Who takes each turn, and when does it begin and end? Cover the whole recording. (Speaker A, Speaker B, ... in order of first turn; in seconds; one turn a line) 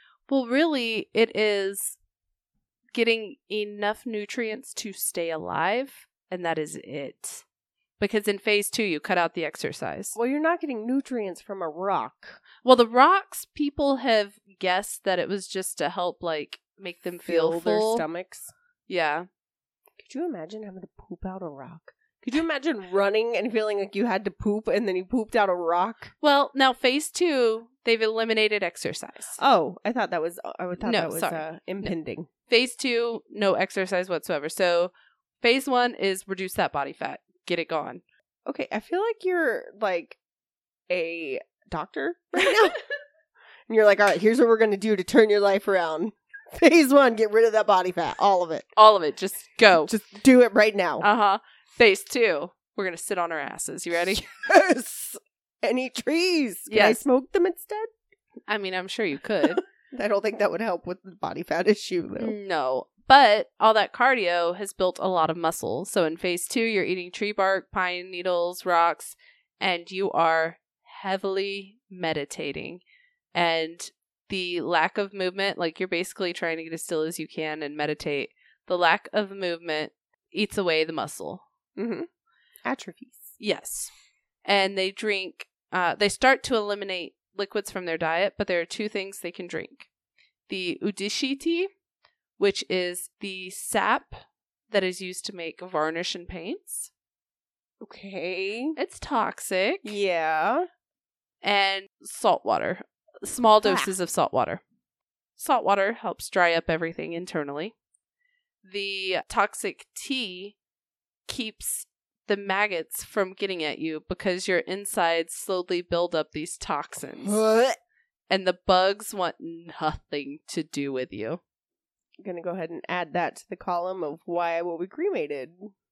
Speaker A: 0.3-2.0
Speaker A: 2.9-7.5
Speaker A: 8.0-10.2
Speaker B: 10.2-12.4
Speaker A: 12.6-18.1
Speaker B: 17.2-18.5
Speaker A: 18.9-19.3
Speaker B: 20.0-26.1
Speaker A: 26.2-29.4
Speaker B: 29.4-32.3
Speaker A: 30.8-31.9
Speaker A: 32.5-38.0
Speaker B: 38.5-40.2
Speaker B: 40.9-42.8
Speaker B: 43.7-48.7
Speaker A: 48.8-49.9
Speaker B: 49.8-51.1
Speaker A: 51.0-54.2
Speaker B: 54.1-57.9
Speaker A: 56.7-57.0
Speaker A: 58.5-59.6
Speaker B: 59.4-62.4
Speaker A: 62.2-72.8
Speaker A: 73.3-81.4
Speaker B: 81.8-82.1
Speaker B: 82.7-83.4
Speaker A: 83.4-83.9
Speaker A: 84.5-89.9
Speaker A: 90.5-91.7
Speaker A: 92.4-96.9
Speaker B: 97.8-98.8
Speaker A: 98.8-100.0
Speaker B: 99.8-100.7
Speaker A: 101.4-104.6
Speaker B: 103.6-103.9
Speaker A: 105.4-107.8
Speaker A: 108.6-110.6
Speaker A: 111.3-117.4
Speaker B: 117.2-117.8
Speaker A: 118.3-121.4
Speaker B: 122.2-125.7